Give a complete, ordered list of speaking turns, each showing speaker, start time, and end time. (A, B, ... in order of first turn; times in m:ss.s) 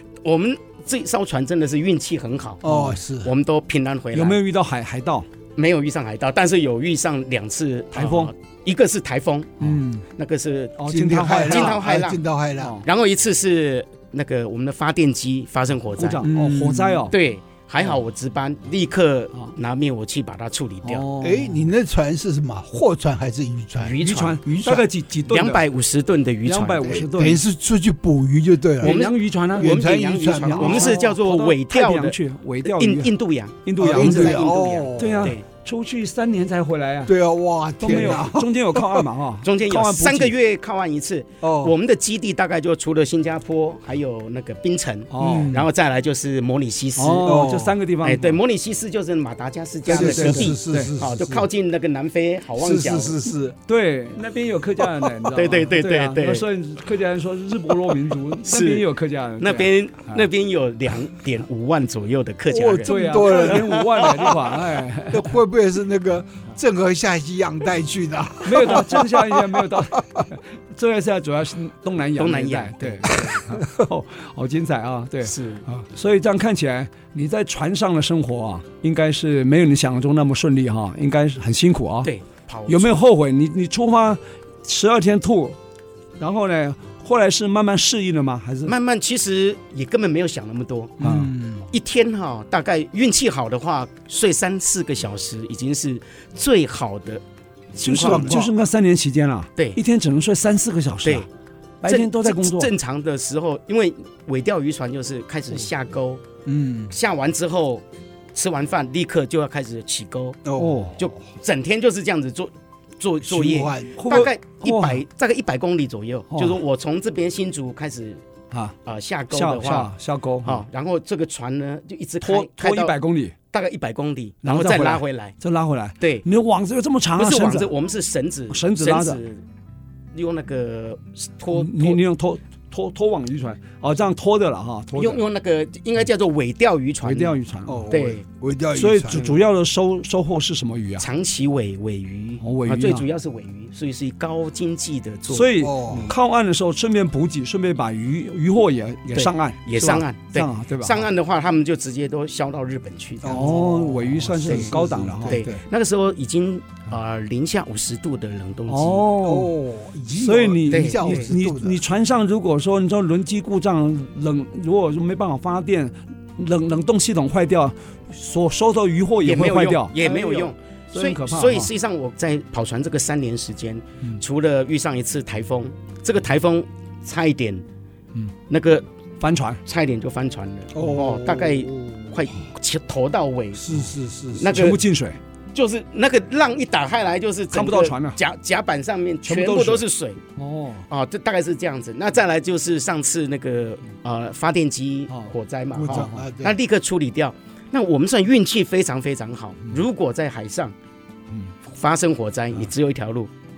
0:00.2-0:02.6 A
0:02.6-0:03.3 B
0:02.6-0:03.0 C
0:03.2-0:04.4 A
0:04.1-0:05.3 C
0:05.6-0:09.5 A
0:07.9-0:08.3 C
0:09.6-0:10.0 B
0:10.2-0:10.8 A
0:10.8-0:11.8 C
0:10.9-0:12.8 B
0:11.4-0:12.2 A
0:12.6-0:12.8 C
0:12.8-0:16.2 A
0:16.0-0:17.2 C
0:16.2-0:17.1 B
0:17.1-0:21.0 A
0:20.8-0:21.7 C
0:21.2-0:24.9 B
0:23.8-0:24.4 A
0:24.0-0:25.7 C
0:25.3-0:27.0 A
0:26.4-0:27.4 C
0:26.8-0:29.0 B
0:28.8-0:33.1 C
0:28.8-0:35.4 A
0:29.5-0:31.0 B
0:33.6-0:37.1 C
0:33.8-0:35.3 B
0:37.1-0:39.1 B
0:37.8-0:40.4 C
0:39.4-0:47.5 A
0:41.4-0:41.7 B
0:45.1-0:45.6 C
0:45.2-0:45.7 B
0:47.0-0:48.4 C
0:47.2-0:47.8 B
0:48.0-0:53.2 A
0:49.9-0:51.5 B
0:49.9-0:50.9 C
0:52.6-0:53.6 B
0:53.7-1:00.2 C
0:55.3-0:56.5 A
0:58.4-0:58.9 A
0:59.4-1:04.3 A
1:02.5-1:04.4 B
1:02.8-1:05.4 C
1:05.1-1:10.2 B
1:08.4-1:22.1 C
1:12.2-1:13.4 A
1:15.2-1:15.6 A
1:22.0-1:23.0 A
1:22.7-1:25.6 C
1:26.2-1:28.7 C
1:28.7-1:31.0 A
1:31.0-1:31.7 B
1:31.0-1:31.3 C
1:31.7-1:37.2 A
1:37.8-1:38.4 A
1:37.8-1:41.3 C
1:37.9-1:38.5 B
1:41.8-1:42.7 C
1:41.8-1:46.2 A
1:46.4-1:46.9 B
1:46.9-1:47.8 A
1:48.4-1:50.4 A
1:50.4-1:51.1 B
1:50.6-1:51.0 C
1:51.0-1:58.2 A
1:53.2-1:54.0 B
1:54.0-1:55.0 C
1:56.3-1:56.6 C
1:58.8-1:59.9 A
1:59.3-2:00.6 C
2:00.4-2:03.0 A
2:02.2-2:03.4 C
2:03.5-2:05.4 A
2:04.4-2:07.7 C
2:06.0-2:06.3 A
2:07.2-2:09.4 A
2:08.5-2:09.2 C
2:10.1-2:12.0 A
2:11.5-2:15.2 C
2:14.9-2:17.4 A
2:17.0-2:17.9 C
2:17.7-2:19.4 B
2:17.9-2:18.2 A
2:18.8-2:21.1 C
2:21.0-2:26.1 A
2:22.4-2:23.0 C
2:25.3-2:31.1 C
2:25.6-2:26.1 B
2:29.1-2:33.6 A
2:33.2-2:35.4 B
2:33.2-2:35.6 C
2:34.4-2:34.7 A
2:35.2-2:39.1 A
2:38.7-2:39.6 C
2:39.2-2:41.8 B
2:40.1-2:51.7 C
2:40.7-2:41.3 A
2:49.2-2:57.6 A
2:58.5-2:58.9 A
2:59.2-2:59.6 C
2:59.6-3:03.6 A
3:00.7-3:02.2 B
3:03.6-3:04.8 B
3:04.4-3:04.8 A
3:04.5-3:05.2 C
3:05.5-3:10.2 A
3:07.5-3:08.2 C
3:09.2-3:09.8 C
3:10.4-3:10.9 C
3:10.9-3:20.8 A
3:15.7-3:16.6 B
3:15.9-3:16.3 C
3:21.7-3:23.3 A